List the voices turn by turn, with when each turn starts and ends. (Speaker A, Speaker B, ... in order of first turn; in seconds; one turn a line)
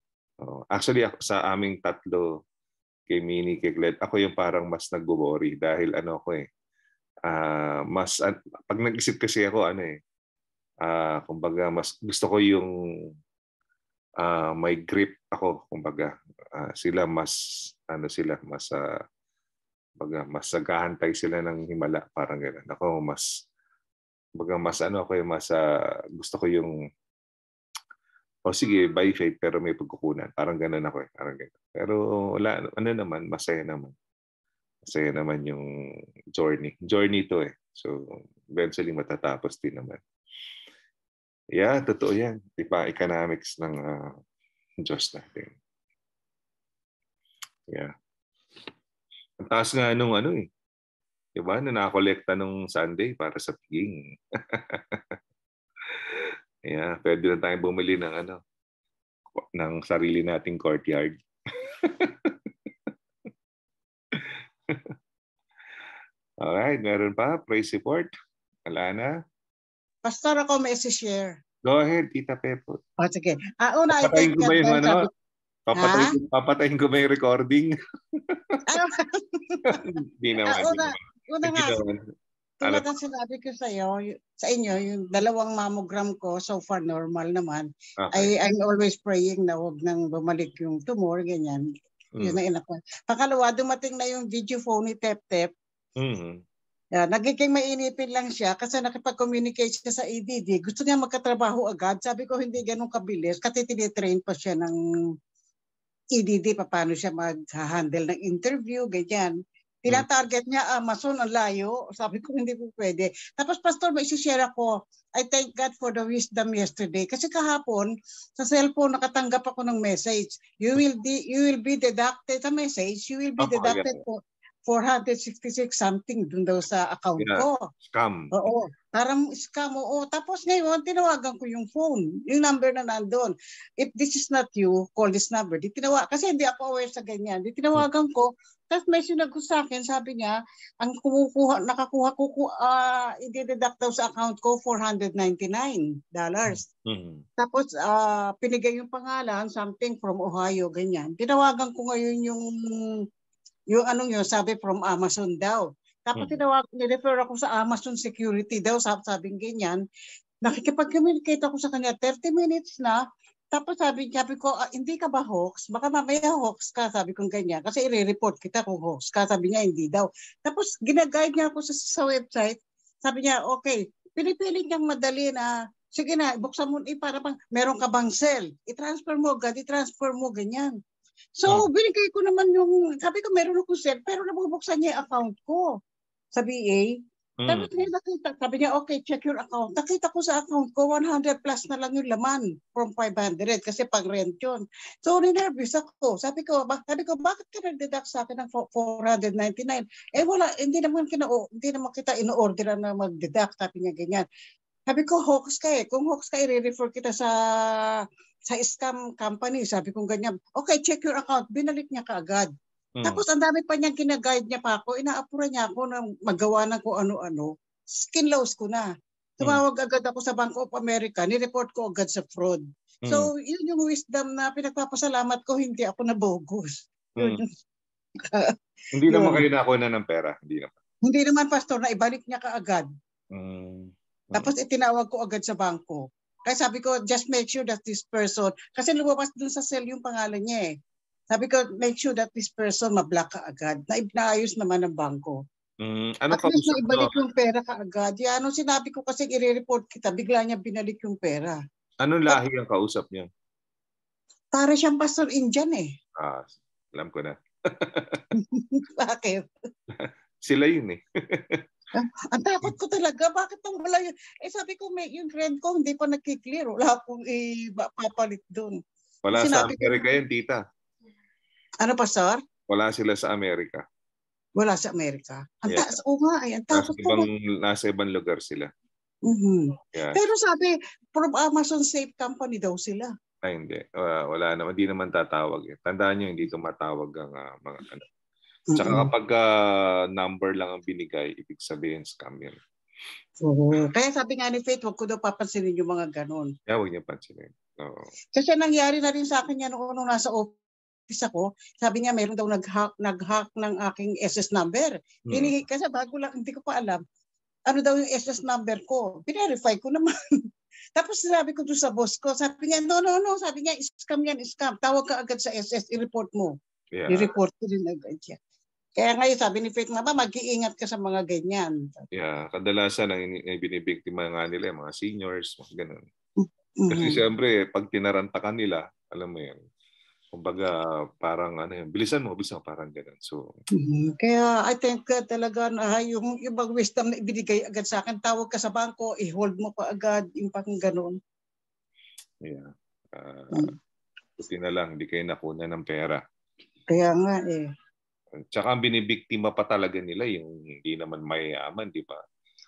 Speaker A: 0.4-2.3
Speaker A: 3.1-6.4
Speaker A: 7.3-10.0
Speaker A: 10.8-12.7
Speaker A: 14.2-17.3
Speaker A: 17.9-18.8
Speaker A: 20.0-23.2
Speaker A: 24.4-25.6
Speaker A: 26.2-26.7
Speaker A: 28.5-33.9
Speaker A: 34.9-35.6
Speaker A: 36.3-40.0
Speaker A: 41.5-44.1
Speaker A: 44.8-45.5
Speaker A: 49.4-50.5
Speaker A: 51.4-54.0
Speaker A: 54.5-55.0
Speaker A: 56.7-58.4
Speaker A: 59.4-62.3
Speaker A: 64.2-64.9
Speaker A: 66.4-68.1
Speaker A: 68.7-69.1
Speaker B: 70.0-71.3
Speaker A: 71.7-72.8
Speaker B: 73.0-75.1
Speaker A: 73.9-75.1
Speaker A: 75.7-78.6
Speaker B: 75.8-76.1
Speaker B: 78.7-81.8
Speaker A: 79.7-82.0
Speaker B: 82.6-91.7
Speaker A: 88.0-88.3
Speaker B: 92.2-95.5
Speaker A: 96.0-96.4
Speaker B: 97.0-104.8
Speaker B: 106.2-127.7
Speaker A: 123.4-124.0
Speaker A: 127.2-128.3
Speaker B: 128.3-146.7
Speaker A: 146.9-147.2
Speaker B: 147.4-153.0
Speaker B: 153.7-159.8
Speaker B: 160.4-180.8
Speaker B: 181.3-185.7
Speaker B: 186.3-204.2
Speaker A: 187.4-187.7
Speaker B: 204.9-212.5
Speaker A: 213.0-213.2
Speaker B: 213.0-227.4
Speaker A: 223.0-223.3
Speaker A: 228.9-230.8
Speaker B: 229.1-229.4
Speaker B: 231.0-232.9
Speaker A: 233.3-234.5
Speaker B: 234.3-240.8
Speaker B: 241.3-245.4
Speaker A: 245.8-247.1
Speaker B: 246.3-251.6
Speaker A: 252.0-253.3
Speaker B: 254.5-255.9
Speaker A: 256.2-258.2
Speaker B: 258.3-259.4
Speaker A: 259.9-261.6
Speaker B: 261.9-268.8
Speaker A: 269.2-270.6
Speaker B: 269.3-270.0
Speaker B: 271.8-272.4
Speaker A: 272.7-273.8
Speaker B: 274.6-277.2
Speaker A: 276.7-278.7
Speaker B: 279.2-283.1
Speaker A: 279.9-280.2
Speaker A: 283.4-288.0
Speaker B: 288.7-289.1
Speaker A: 288.8-292.6
Speaker B: 293.4-296.5
Speaker A: 296.7-298.1
Speaker B: 298.3-307.0
Speaker A: 305.3-305.5
Speaker B: 307.7-310.1
Speaker B: 310.9-316.5
Speaker A: 316.9-317.3
Speaker B: 317.1-318.4
Speaker B: 319.0-322.1
Speaker A: 322.1-326.0
Speaker B: 326.4-327.2
Speaker A: 326.9-329.6
Speaker A: 330.3-333.5
Speaker B: 333.8-341.2
Speaker A: 342.4-343.7
Speaker A: 344.4-346.2
Speaker B: 346.9-347.7
Speaker A: 348.5-352.2